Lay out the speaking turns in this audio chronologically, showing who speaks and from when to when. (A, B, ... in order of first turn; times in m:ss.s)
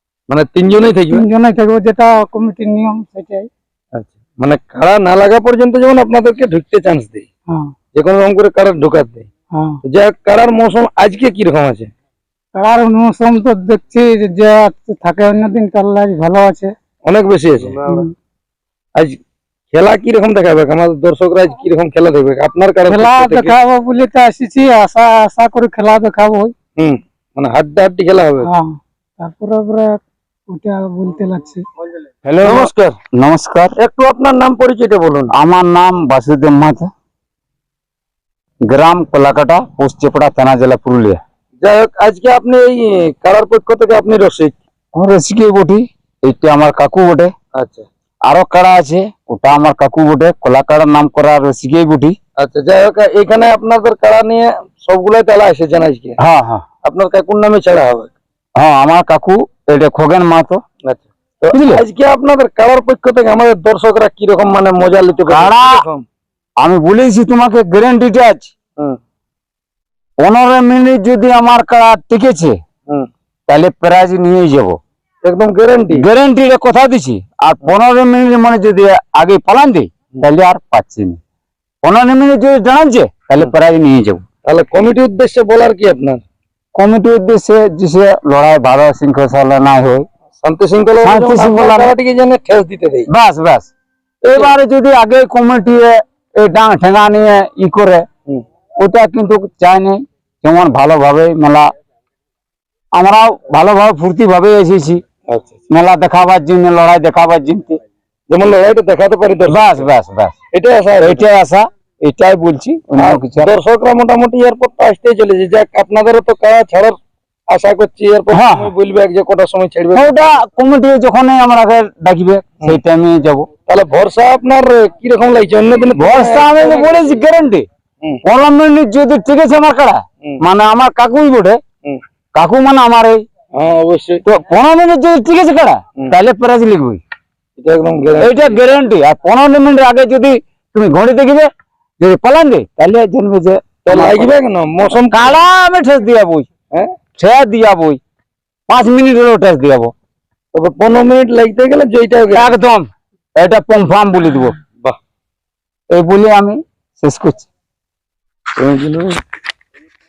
0:00.3-0:01.2 A
0:01.1-0:03.5 B
0:03.9-0:07.2 A
0:07.9-0:09.3 A
0:09.5-0:09.8 B
0:09.8-0:11.9 A
0:12.5-0:16.7 B
0:17.0-0:17.8 A
0:17.8-0:18.1 B
0:19.7-0:23.5 A
0:22.9-0:26.5 B
0:26.8-0:28.5 A
0:28.4-0:31.6 B
0:32.2-0:33.7 C
0:32.4-0:33.0 A
0:33.8-0:35.3 A
0:35.3-0:36.9 C
0:38.7-0:41.2 C
0:41.6-0:44.5 A
0:44.9-0:47.3 C
0:47.6-0:47.8 A
0:48.2-0:52.1 C
0:52.4-0:56.2 A
0:56.2-0:56.6 C
0:56.8-0:58.1 A
0:58.6-1:00.6 C
1:00.8-1:06.0 A
1:01.5-1:01.8 C
1:05.3-1:05.8 C
1:06.6-1:08.5 C
1:10.2-1:12.6 C
1:13.5-1:14.8 C
1:15.2-1:16.0 A
1:15.9-1:21.2 C
1:21.8-1:24.2 C
1:24.4-1:26.2 A
1:26.8-1:30.0 C
1:30.4-1:33.1 A
1:31.0-1:31.9 C
1:33.1-1:33.7 C
1:34.2-1:34.5 A
1:34.3-1:38.0 C
1:38.8-1:41.7 C
1:43.0-1:45.0 C
1:45.3-1:45.6 A
1:45.7-1:47.8 C
1:48.3-1:49.9 A
1:49.5-1:50.4 C
1:50.5-1:51.2 A
1:51.0-1:53.5 C
1:53.0-1:57.0 A
1:57.5-2:00.4 A
1:58.3-1:58.7 C
1:59.9-2:03.5 C
2:03.7-2:07.1 A
2:06.0-2:07.6 C
2:08.2-2:11.6 C
2:12.3-2:13.2 C
2:13.6-2:14.2 A
2:14.2-2:17.0 C
2:17.6-2:18.6 A
2:18.2-2:21.5 C
2:22.0-2:24.3 C
2:23.9-2:25.4 A
2:25.1-2:26.5 C
2:27.2-2:28.0 C
2:28.7-2:29.9 C
2:30.5-2:32.5 A
2:32.3-2:34.5 C
2:35.9-2:37.5 C
2:38.6-2:39.2 A